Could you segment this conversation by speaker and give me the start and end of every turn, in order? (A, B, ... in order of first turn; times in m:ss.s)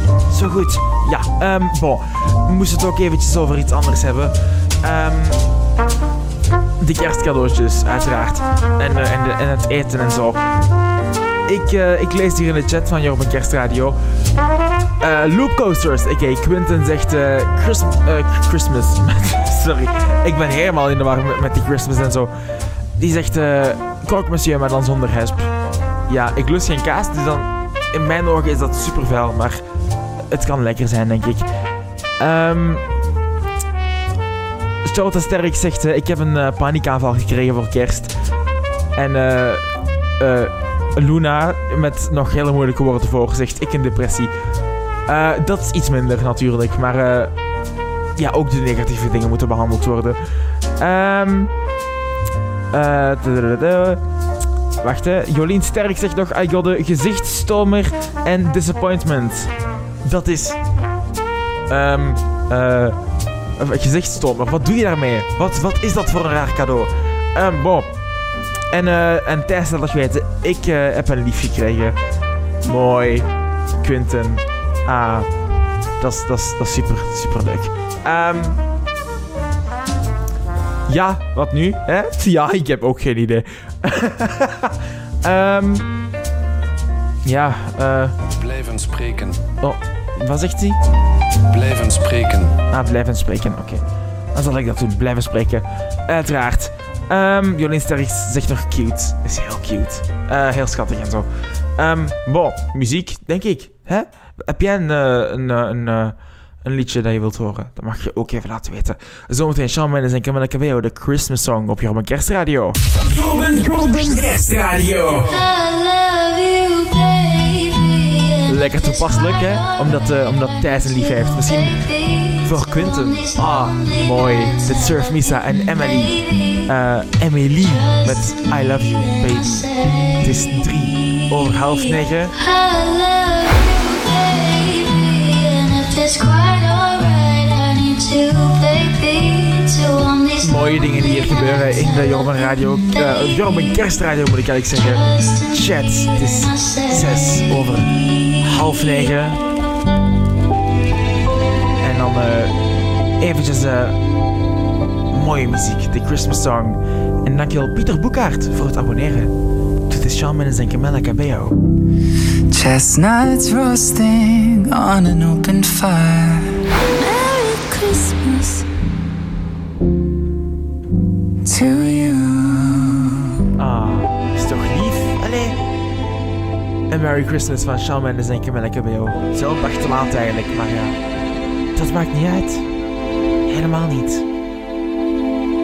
0:00.3-0:05.4 A
0:06.8-0:10.4 A
0:11.5-0:14.0 A
0:15.0-0:22.3 A
0:23.0-0:25.5 A
0:26.1-0:29.6 A
0:30.3-0:31.4 A
0:32.2-0:32.8 A
0:34.8-0:38.1 A
0:38.9-0:39.7 A
0:40.2-0:44.3 A
0:45.1-0:47.3 A
0:48.2-0:50.2 A
0:50.8-0:51.5 A
0:52.7-0:54.0 A
0:54.8-0:59.5 A
1:00.0-1:00.6 A
1:01.7-1:03.0 A
1:03.6-1:07.9 A
1:08.7-1:12.0 A
1:12.6-1:13.3 A
1:13.8-1:15.3 A
1:16.0-1:18.6 A
1:20.9-1:25.9 A
1:27.2-1:28.1 A
1:28.3-1:29.4 B
1:29.6-1:30.8 A
1:31.5-1:32.5 B
1:32.7-1:33.8 A
1:34.3-1:41.2 A
1:41.8-1:52.8 A
1:53.0-1:55.4 C
1:55.2-2:06.7 D
1:58.5-2:01.8 A
2:02.4-2:06.1 A
2:06.7-2:09.7 A
2:07.7-2:08.5 D
2:09.1-2:10.5 D
2:10.2-2:12.3 A
2:12.4-2:23.6 D
2:20.4-2:27.9 A
2:24.8-2:27.5 D
2:28.4-2:29.4 A
2:31.8-2:32.5 A
2:33.2-2:34.0 A
2:35.1-2:39.3 A
2:39.9-2:41.5 A
2:42.5-2:46.5 E
2:46.9-2:48.6 D
2:51.4-2:53.0 E
2:53.6-2:55.6 A
2:56.9-3:01.0 A
3:01.7-3:02.6 A
3:03.5-3:04.2 A